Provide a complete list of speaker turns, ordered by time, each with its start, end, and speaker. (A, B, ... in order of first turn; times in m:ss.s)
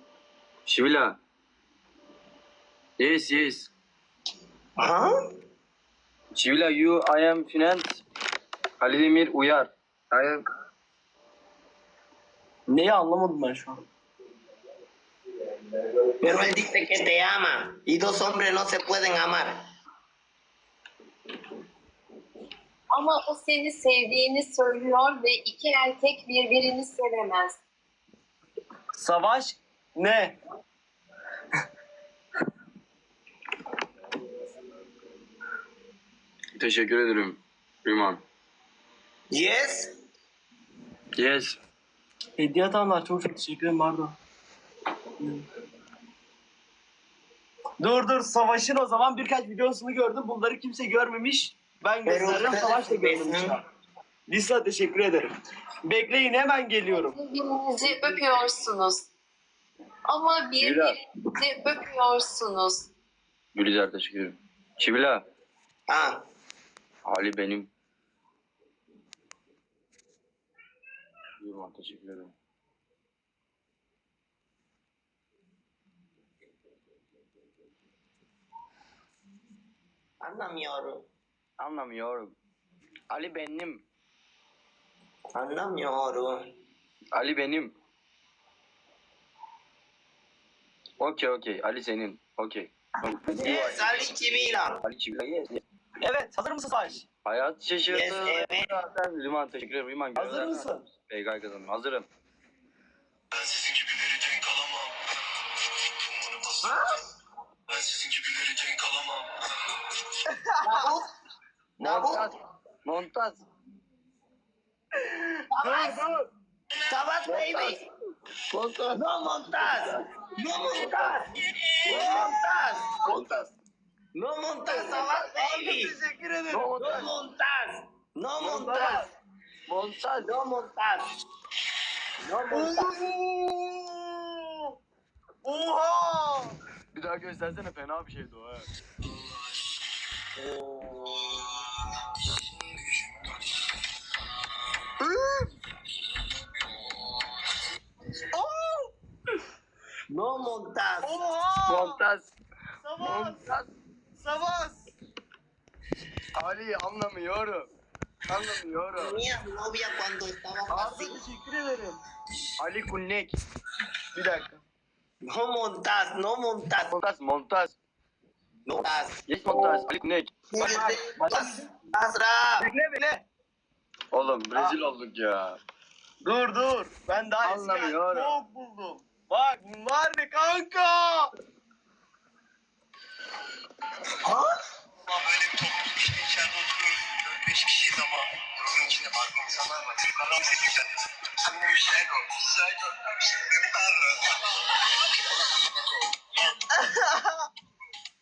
0:00.7-0:01.2 A
0:03.0-0:03.7 A
0:04.8-0:05.1 B
0:06.3-0:08.0 A
0:08.8-0:10.4 A
0:12.7-0:13.8 C
0:16.2-0:19.6 B
0:22.9-0:27.6 D
0:28.9-0:30.4 C
0:36.6-0:38.2 A
0:39.3-0:39.9 B
0:41.2-0:41.6 A
0:42.4-0:44.2 C
0:45.2-0:45.4 C
0:47.8-0:53.6 C
0:52.0-0:53.6 B
0:54.3-0:55.3 C
0:55.8-0:57.2 C
0:56.9-0:59.1 D
1:00.1-1:02.9 D
1:00.6-1:01.0 A
1:03.6-1:05.2 A
1:05.9-1:06.2 B
1:07.0-1:07.7 A
1:11.4-1:12.3 A
1:20.2-1:21.1 B
1:21.6-1:22.4 A
1:23.1-1:23.8 A
1:25.4-1:26.5 B
1:27.1-1:27.8 A
1:31.0-1:34.0 A
1:33.4-1:34.8 B
1:34.8-1:35.6 A
1:36.0-1:37.1 C
1:37.2-1:42.1 A
1:37.9-1:38.7 B
1:40.2-1:40.9 C
1:43.3-1:45.0 E
1:45.9-1:46.8 E
1:47.7-1:49.3 E
1:50.4-1:50.9 C
1:50.6-1:51.1 B
1:51.8-1:52.3 B
1:51.8-1:53.5 A
1:55.0-1:56.3 C
1:55.5-1:56.0 B
1:56.9-1:57.8 B
1:57.2-1:57.8 A
1:58.5-2:00.0 A
1:58.9-2:01.3 B
2:00.8-2:01.2 A
2:01.9-2:02.9 B
2:01.9-2:02.4 C
2:01.9-2:02.3 A
2:03.0-2:03.5 A
2:04.1-2:06.0 B
2:04.7-2:07.1 C
2:06.5-2:07.1 A
2:06.8-2:09.1 B
2:08.4-2:09.1 A
2:08.6-2:09.0 C
2:09.7-2:10.3 A
2:10.2-2:11.1 B
2:12.2-2:13.0 B
2:12.5-2:14.8 C
2:15.4-2:16.6 C
2:16.9-2:18.7 A
2:20.4-2:21.2 C
2:22.6-2:23.3 E
2:28.3-2:28.9 C
2:30.1-2:31.2 B
2:31.0-2:32.0 C
2:31.7-2:32.3 A
2:32.8-2:33.5 C
2:33.0-2:33.7 A
2:34.2-2:34.9 C
2:36.4-2:37.7 A
2:38.3-2:39.2 A
2:38.9-2:41.2 B
2:40.7-2:42.0 C
2:42.6-2:43.4 A
2:44.1-2:44.6 C
2:45.2-2:47.0 B
2:46.9-2:47.8 A
2:48.7-2:49.2 B
2:49.3-2:50.3 A
2:50.5-2:52.7 B
2:50.6-2:51.7 C
2:52.6-2:53.2 C
2:54.1-2:55.6 A
2:56.2-3:01.3 C
2:57.4-2:58.3 A
3:04.2-3:04.5 B
3:05.1-3:10.9 E
3:11.5-3:14.3 E
3:16.7-3:17.4 C